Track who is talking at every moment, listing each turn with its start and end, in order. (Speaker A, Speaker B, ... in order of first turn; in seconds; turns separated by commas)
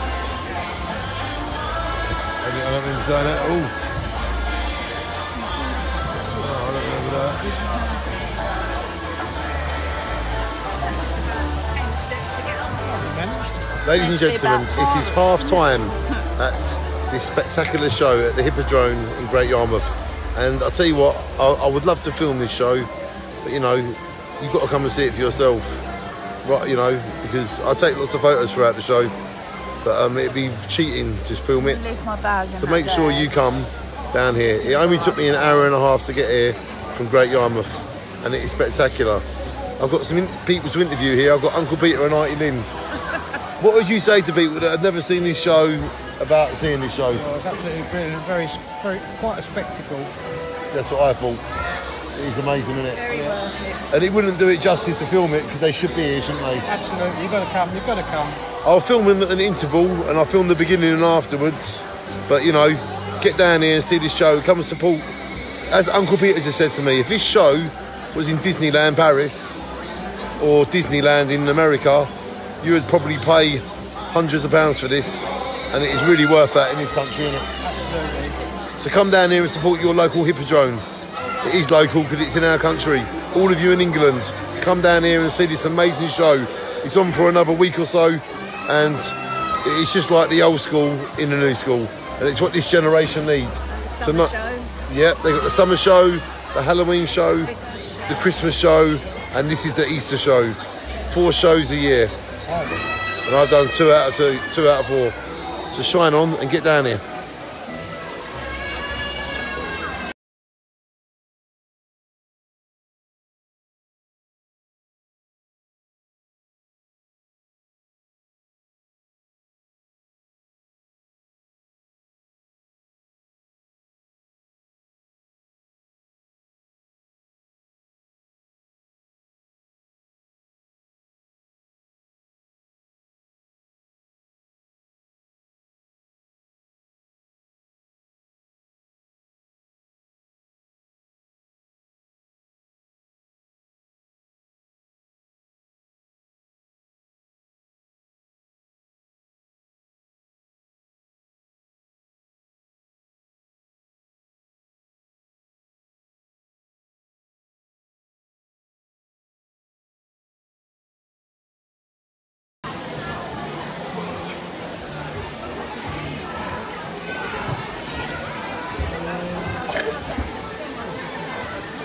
Speaker A: 2.4-3.7, Speaker A: 6.3-7.5, Speaker B: 11.1-12.9, Speaker C: 12.8-13.7, Speaker A: 13.8-22.9, Speaker B: 13.9-15.6, Speaker A: 23.4-25.9, Speaker A: 26.4-29.1, Speaker A: 29.8-31.9, Speaker B: 31.7-33.3, Speaker A: 32.6-39.2, Speaker A: 39.8-42.7, Speaker A: 43.6-47.2, Speaker C: 47.1-50.1, Speaker A: 50.7-51.4, Speaker A: 52.2-53.1, Speaker B: 53.0-53.9, Speaker C: 53.1-53.5, Speaker A: 53.9-56.7, Speaker C: 56.7-58.4, Speaker A: 58.6-69.6, Speaker A: 70.4-72.1, Speaker A: 72.6-77.5, Speaker C: 77.6-78.4, Speaker A: 78.8-80.8, Speaker A: 81.4-89.1, Speaker A: 89.6-94.3, Speaker B: 93.8-94.8, Speaker A: 94.9-97.5, Speaker A: 98.1-100.6, Speaker A: 101.1-102.1, Speaker C: 102.5-102.8, Speaker A: 103.3-105.2, Speaker A: 105.7-107.0, Speaker C: 169.0-169.7